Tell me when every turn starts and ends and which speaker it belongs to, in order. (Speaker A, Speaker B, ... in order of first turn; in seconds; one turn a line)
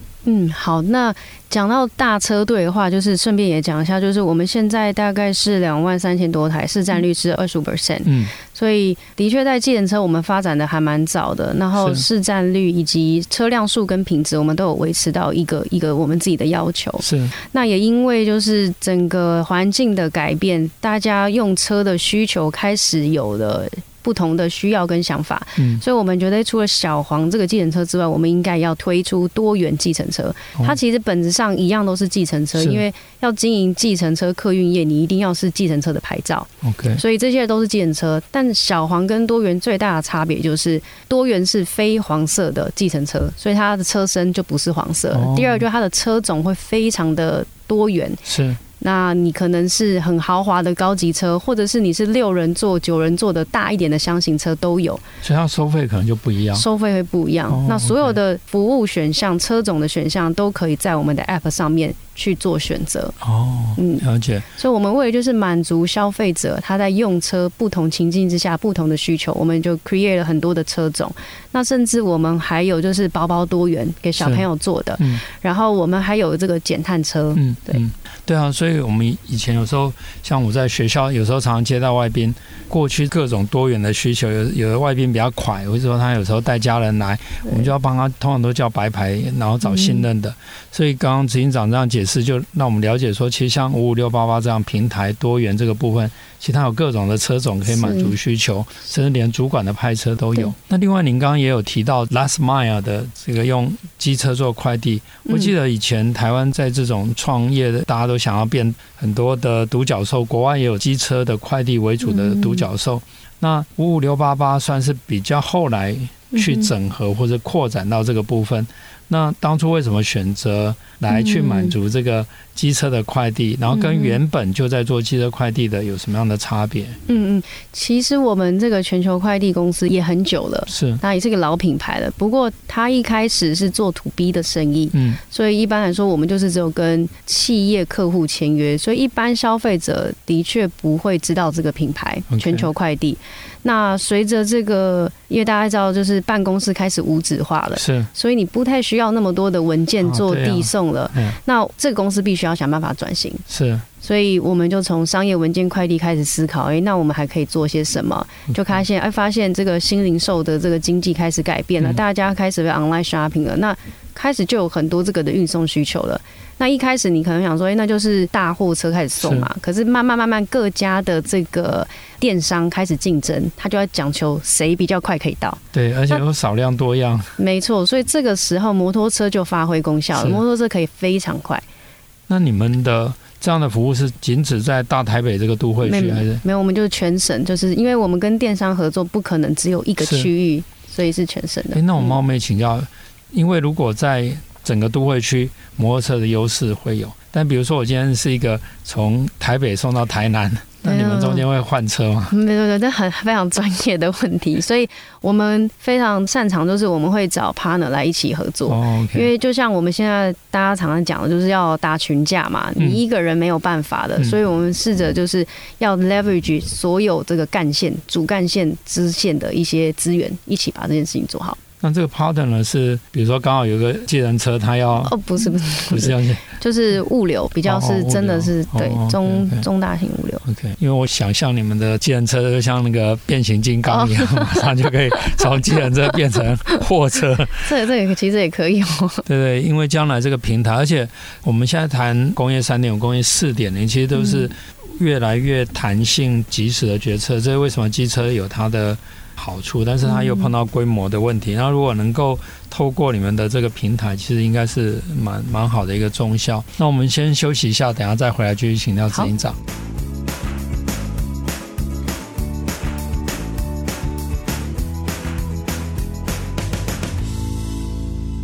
Speaker A: 0.2-48.2
Speaker B: 8.0-8.3
Speaker B: 11.7-12.0
Speaker B: 17.0-17.3
Speaker B: 25.6-25.8
Speaker B: 32.5-32.8
Speaker B: 36.6-37.0
Speaker B: 45.1-45.6
Speaker B: 48.2-48.6
Speaker A: 48.8-55.0
Speaker B: 55.2-56.6
Speaker A: 56.5-63.2
Speaker B: 57.5-58.2
Speaker B: 63.2-64.5
Speaker A: 63.8-77.8
Speaker B: 74.2-74.5
Speaker B: 75.0-75.2
Speaker B: 77.3-127.0
Speaker A: 89.6-90.1
Speaker A: 97.7-98.1
Speaker A: 105.2-105.5
Speaker A: 112.0-112.7
Speaker A: 116.3-116.7
Speaker A: 121.1-121.8
Speaker A: 123.7-124.2
Speaker A: 127.1-153.4
Speaker B: 130.7-131.0
Speaker B: 134.9-135.2
Speaker B: 142.3-142.7
Speaker B: 147.8-148.1
Speaker B: 150.0-151.4
Speaker B: 153.5-153.8
Speaker A: 154.0-175.6
Speaker B: 158.5-158.8
Speaker B: 169.2-169.5
Speaker B: 175.7-177.3
Speaker A: 177.4-181.6
Speaker B: 180.1-180.4
Speaker B: 182.3-186.4
Speaker A: 185.8-192.2
Speaker B: 190.0-190.3
Speaker B: 191.7-202.3
Speaker A: 200.8-201.4
Speaker A: 202.3-221.6
Speaker B: 208.7-209.3
Speaker B: 221.8-225.2
Speaker A: 225.0-230.4
Speaker B: 225.8-226.4
Speaker B: 227.6-229.7
Speaker B: 230.4-237.7
Speaker A: 233.8-235.8
Speaker A: 237.6-239.2
Speaker B: 239.2-259.6
Speaker A: 244.1-244.5
Speaker A: 250.0-250.5